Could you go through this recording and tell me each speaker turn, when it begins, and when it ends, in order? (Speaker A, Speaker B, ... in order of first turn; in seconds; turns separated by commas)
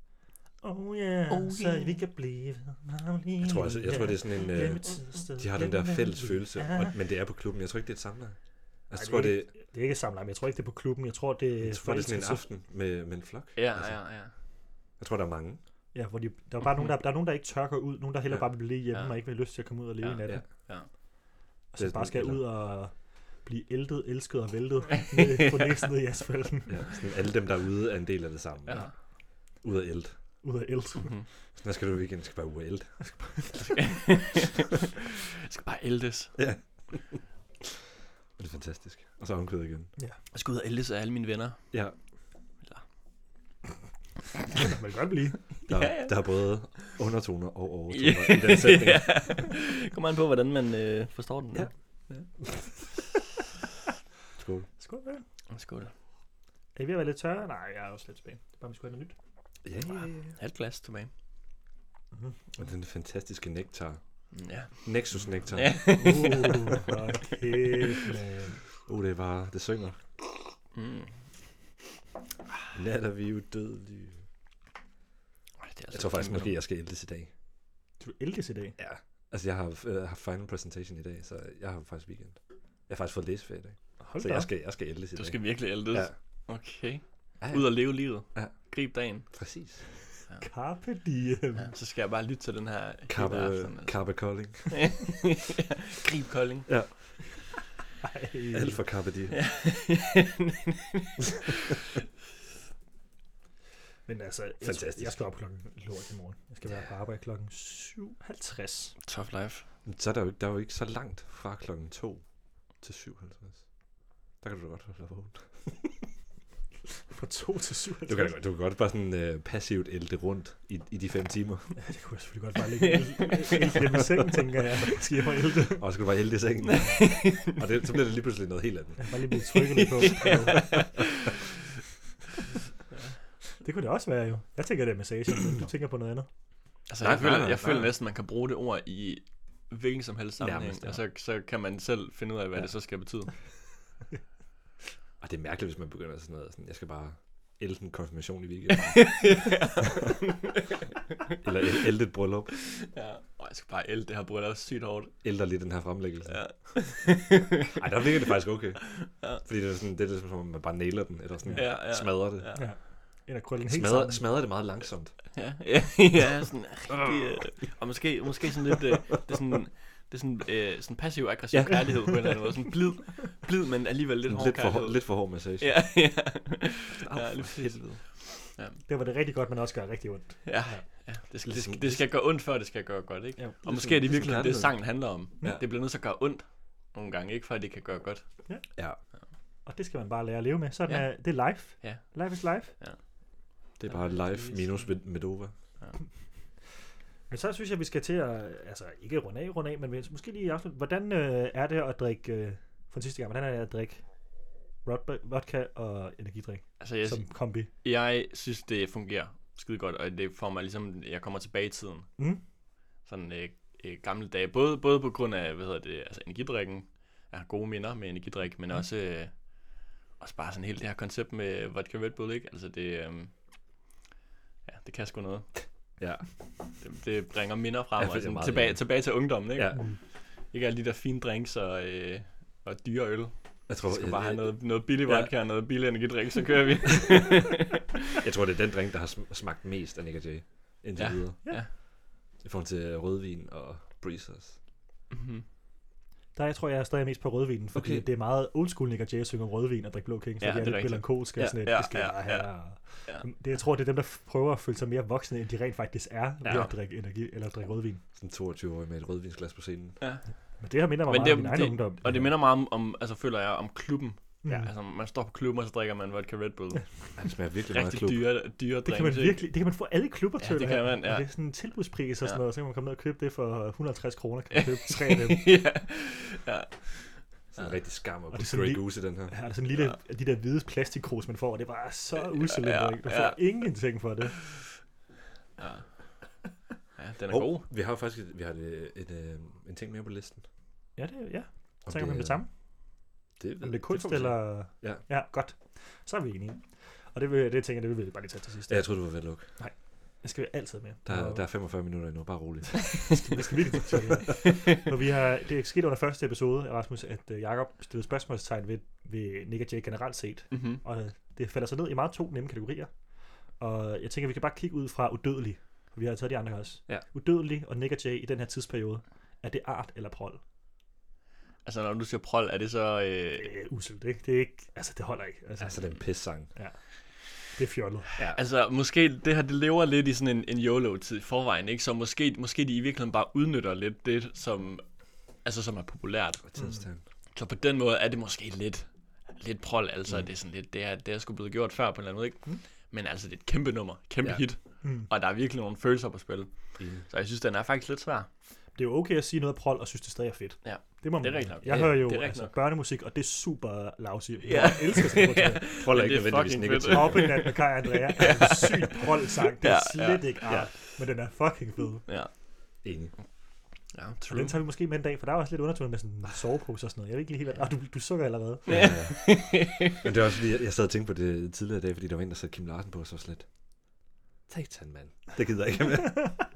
Speaker A: 0.6-6.9, Speaker B: 1.3-1.8, Speaker C: 3.4-8.4, Speaker C: 8.9-9.5, Speaker A: 8.9-12.4, Speaker C: 11.6-14.1, Speaker B: 13.6-14.3, Speaker C: 15.0-15.6, Speaker A: 15.9-20.4, Speaker B: 18.9-19.2, Speaker B: 19.7-20.9, Speaker A: 21.7-27.0, Speaker C: 21.8-22.5, Speaker B: 25.1-25.8, Speaker C: 26.7-28.9, Speaker B: 28.7-28.9, Speaker C: 29.6-30.1, Speaker A: 30.4-31.1, Speaker B: 31.0-31.2, Speaker C: 31.6-33.0, Speaker A: 33.0-33.6, Speaker B: 33.6-34.9, Speaker B: 35.4-36.4, Speaker C: 36.4-37.2, Speaker C: 38.4-39.9, Speaker B: 40.3-41.6, Speaker A: 44.5-45.4, Speaker B: 45.7-46.1, Speaker C: 45.7-49.3, Speaker B: 47.9-52.2, Speaker C: 54.4-54.7, Speaker A: 54.8-55.2, Speaker B: 55.5-55.9, Speaker A: 56.8-59.1, Speaker C: 59.6-60.4, Speaker B: 60.4-61.1, Speaker C: 62.5-64.0, Speaker B: 64.3-64.9, Speaker C: 64.8-66.3, Speaker B: 65.5-66.8, Speaker A: 65.9-68.6, Speaker C: 68.8-70.0, Speaker B: 70.7-71.1, Speaker C: 72.7-74.2, Speaker B: 75.6-76.6, Speaker C: 75.9-77.3, Speaker A: 78.0-78.8, Speaker C: 78.8-86.1, Speaker A: 84.0-84.5, Speaker B: 85.2-89.3, Speaker C: 87.4-88.5, Speaker C: 89.3-90.2, Speaker A: 90.4-91.7, Speaker B: 91.6-94.0, Speaker C: 93.1-94.9, Speaker B: 94.7-96.7, Speaker C: 96.7-96.9, Speaker A: 98.0-98.8, Speaker C: 98.5-99.4, Speaker B: 99.3-101.7, Speaker A: 104.1-109.0, Speaker C: 104.6-105.2, Speaker B: 109.0-109.7, Speaker C: 109.8-112.2, Speaker C: 112.8-113.6, Speaker C: 114.4-115.8, Speaker A: 117.1-118.4, Speaker C: 118.1-121.8, Speaker A: 121.8-125.8, Speaker B: 122.8-123.5, Speaker C: 125.8-129.1, Speaker B: 126.6-127.6, Speaker A: 129.0-130.7, Speaker B: 129.6-131.3, Speaker C: 130.6-130.8, Speaker A: 133.6-136.3, Speaker B: 136.9-143.3, Speaker C: 137.0-137.9, Speaker C: 140.4-141.0, Speaker C: 145.2-150.0, Speaker B: 148.7-151.3, Speaker C: 151.4-152.5, Speaker B: 152.5-155.1, Speaker C: 155.2-156.8, Speaker B: 156.3-158.0, Speaker C: 157.7-162.7, Speaker B: 158.8-159.4, Speaker A: 161.4-161.7, Speaker B: 161.6-162.7, Speaker A: 162.5-164.3, Speaker C: 163.6-165.2, Speaker B: 165.3-178.8, Speaker C: 171.5-172.2, Speaker C: 174.2-176.1, Speaker C: 177.0-178.0, Speaker A: 178.9-180.8, Speaker B: 180.4-188.4, Speaker C: 181.4-182.1, Speaker A: 183.4-184.0, Speaker C: 183.7-185.6, Speaker A: 189.6-192.7, Speaker B: 190.9-193.0, Speaker C: 193.8-195.5, Speaker B: 193.9-194.7, Speaker A: 197.3-204.0, Speaker A: 204.8-207.7, Speaker B: 206.8-212.1, Speaker B: 213.0-223.3, Speaker B: 224.7-225.5, Speaker C: 226.0-226.3, Speaker B: 226.8-229.9, Speaker C: 228.0-229.8, Speaker B: 230.5-237.9, Speaker C: 233.7-235.3, Speaker C: 238.2-241.7, Speaker B: 241.0-241.7, Speaker C: 242.4-244.6, Speaker B: 245.1-245.4, Speaker A: 246.3-258.0, Speaker C: 247.7-248.1, Speaker B: 250.4-253.2, Speaker C: 256.4-256.7, Speaker C: 258.1-260.0, Speaker B: 260.0-260.3, Speaker A: 260.6-262.3, Speaker B: 261.0-267.0, Speaker A: 264.4-264.7, Speaker C: 267.2-268.2, Speaker B: 267.7-269.4, Speaker A: 268.8-275.5, Speaker B: 270.4-271.3, Speaker B: 274.5-277.6, Speaker C: 277.5-279.4, Speaker A: 278.3-284.4, Speaker B: 282.4-283.5, Speaker B: 285.6-285.9, Speaker B: 287.0-287.7, Speaker C: 287.3-290.4, Speaker A: 291.0-292.5, Speaker C: 291.9-292.4, Speaker C: 293.4-295.0, Speaker A: 293.6-301.5, Speaker C: 298.7-299.5, Speaker C: 301.1-303.2, Speaker A: 303.1-312.9, Speaker B: 310.5-310.8, Speaker A: 313.6-320.4, Speaker B: 321.6-323.5, Speaker A: 323.4-325.9, Speaker C: 325.6-326.5, Speaker A: 327.4-328.1, Speaker B: 328.2-336.5, Speaker C: 336.4-337.0, Speaker A: 336.6-336.8, Speaker B: 337.3-348.3, Speaker A: 344.8-345.1, Speaker C: 346.8-347.0, Speaker A: 348.7-355.6, Speaker B: 350.6-352.6, Speaker C: 351.6-352.0, Speaker B: 354.4-359.1, Speaker C: 355.8-357.5, Speaker A: 356.9-362.0, Speaker B: 359.6-361.0, Speaker B: 362.1-362.3, Speaker C: 362.8-363.1, Speaker B: 363.9-364.6, Speaker A: 364.3-368.9, Speaker C: 368.7-373.5, Speaker B: 368.7-370.0, Speaker C: 374.5-376.4